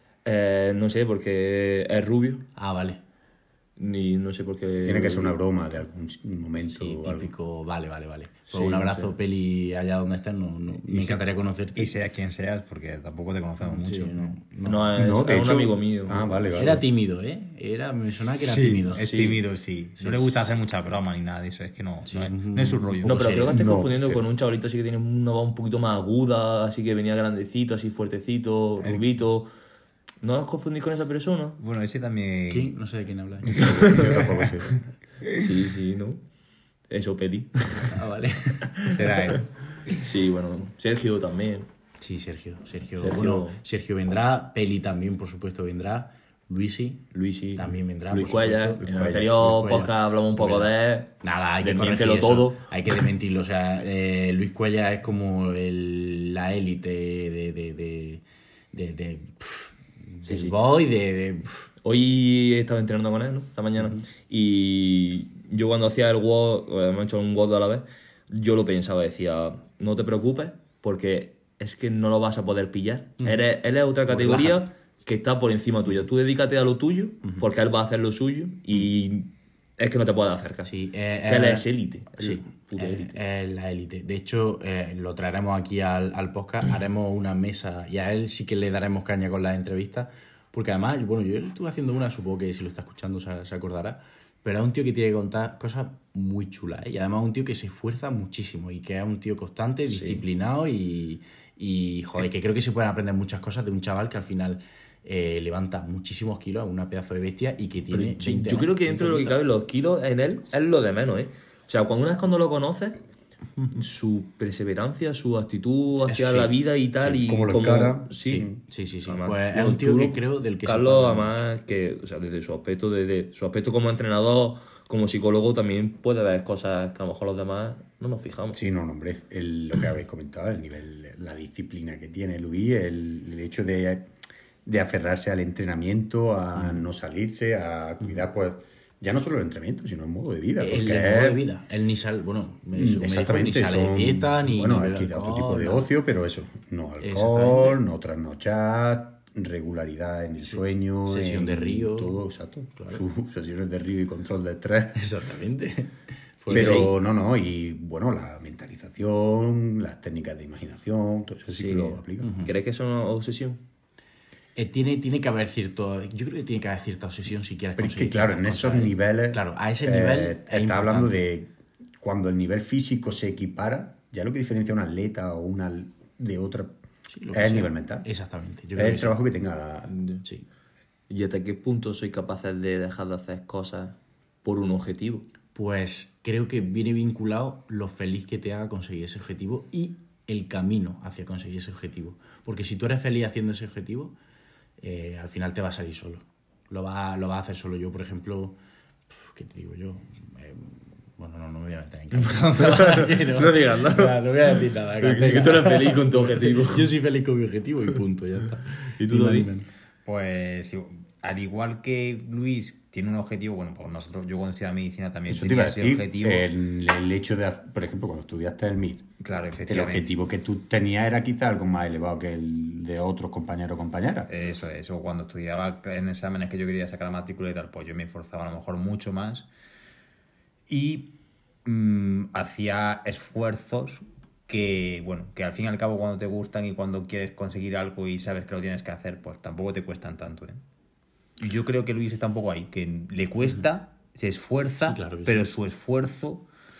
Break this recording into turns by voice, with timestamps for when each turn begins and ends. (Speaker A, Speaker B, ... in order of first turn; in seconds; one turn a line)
Speaker A: 0.2-2.5
Speaker B: 2.5-3.0
Speaker A: 3.8-5.4
Speaker C: 4.8-7.3
Speaker B: 6.7-11.9
Speaker A: 8.5-9.1
Speaker D: 10.9-14.3
Speaker B: 13.6-14.9
Speaker A: 14.6-16.3
Speaker C: 14.9-16.8
Speaker B: 16.5-19.1
Speaker D: 18.4-23.4
Speaker A: 18.9-19.4
Speaker B: 20.0-20.6
Speaker B: 22.1-23.6
Speaker A: 23.0-29.5
Speaker C: 23.5-24.2
Speaker A: 30.2-31.6
Speaker D: 31.6-32.7
Speaker B: 32.5-33.8
Speaker C: 33.5-34.8
Speaker A: 33.6-34.2
Speaker D: 33.9-34.2
Speaker A: 35.3-36.2
Speaker A: 36.9-37.9
Speaker B: 37.9-39.0
Speaker D: 38.8-39.5
Speaker A: 39.9-41.7
Speaker B: 42.0-61.7
Speaker A: 43.0-43.6
Speaker A: 47.1-52.6
Speaker C: 48.8-49.5
Speaker A: 60.3-60.6
Speaker A: 61.8-80.7
Speaker B: 74.1-74.6
Speaker B: 80.6-109.4
Speaker A: 81.2-83.2
Speaker A: 99.9-100.2
Speaker A: 107.9-113.0
Speaker A: 113.7-118.5
Speaker B: 116.1-116.5
Speaker C: 117.0-118.6
Speaker B: 118.2-121.4
Speaker A: 119.0-128.6
Speaker C: 128.5-134.1
Speaker C: 134.6-141.4
Speaker B: 140.6-145.9
Speaker C: 142.7-155.0
Speaker B: 147.0-147.8
Speaker B: 150.4-152.2
Speaker B: 152.8-153.0
Speaker B: 154.9-156.9
Speaker C: 156.5-162.3
Speaker A: 156.5-156.9
Speaker A: 161.5-163.6
Speaker B: 162.2-162.5
Speaker B: 164.6-171.2
Speaker C: 167.8-176.8
Speaker B: 177.1-179.2
Speaker C: 177.3-178.1
Speaker C: 178.7-180.0
Speaker A: 179.9-180.2
Speaker A: 181.1-185.2
Speaker B: 185.5-194.1
Speaker B: 194.8-198.6
Speaker B: 199.1-209.7
Speaker A: 202.3-206.9
Speaker A: 209.0-209.5
Speaker D: 210.0-216.5
Speaker C: 215.3-219.1
Speaker D: 219.2-220.1
Speaker C: 219.7-224.3
Speaker D: 224.3-229.5
Speaker D: 230.7-231.1
Speaker D: 231.6-240.6
Speaker D: 241.4-246.4
Speaker B: 244.8-245.5